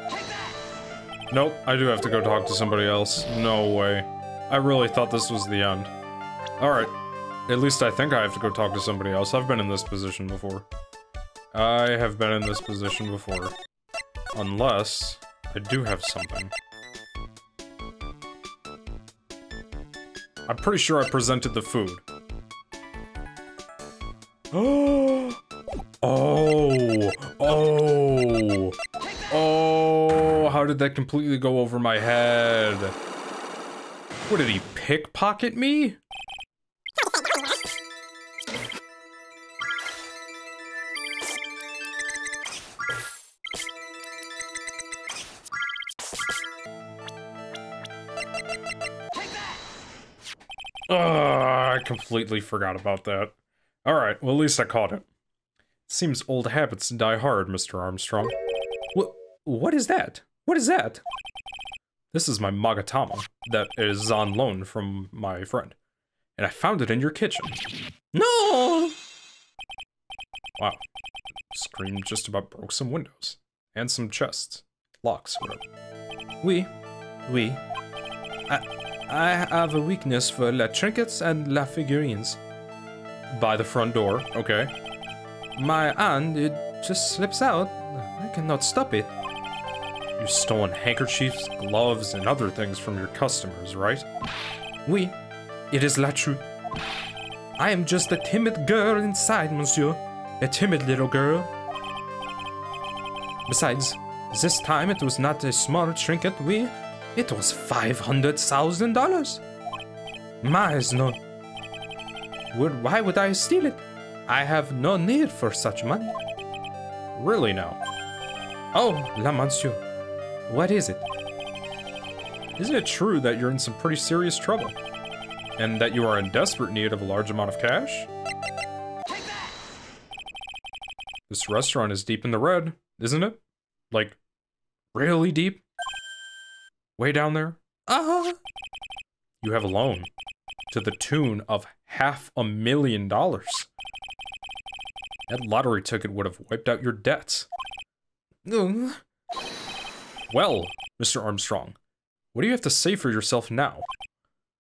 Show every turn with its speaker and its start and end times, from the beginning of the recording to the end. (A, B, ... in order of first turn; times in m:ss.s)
0:01.3-0:05.9 A
0:06.6-0:06.9 A
0:07.5-0:10.7 A
0:11.5-0:13.5 A
0:14.3-0:16.5 A
0:20.5-0:22.0 A
0:24.5-0:25.4 A
0:26.0-0:28.7 A
0:29.3-0:33.0 A
0:34.3-0:36.0 A
0:50.9-0:53.3 A
0:53.8-0:55.0 A
0:55.9-0:58.3 A
0:58.9-1:01.0 A
1:02.1-1:05.8 A
1:06.4-1:07.6 A
1:08.1-1:08.9 A
1:11.5-1:15.6 A
1:16.4-1:16.7 A
1:17.2-1:17.6 A
1:18.5-1:22.4 A
1:23.3-1:24.7 A
1:25.6-1:29.1 A
1:30.2-1:34.0 A
1:34.8-1:35.2 A
1:35.7-1:36.4 A
1:37.6-1:41.5 A
1:43.5-1:49.4 A
1:50.4-1:51.2 A
1:52.5-1:56.2 A
1:57.2-1:57.8 A
1:58.7-1:59.8 A
2:00.5-2:01.0 A
2:02.6-2:04.8 A
2:05.6-2:08.1 A
2:11.3-2:14.2 A
2:14.9-2:15.6 A
2:17.0-2:18.4 A
2:19.4-2:20.1 A
2:20.7-2:23.7 A
2:25.3-2:27.5 A
2:28.4-2:29.0 A
2:30.3-2:31.8 A
2:32.3-2:33.9 A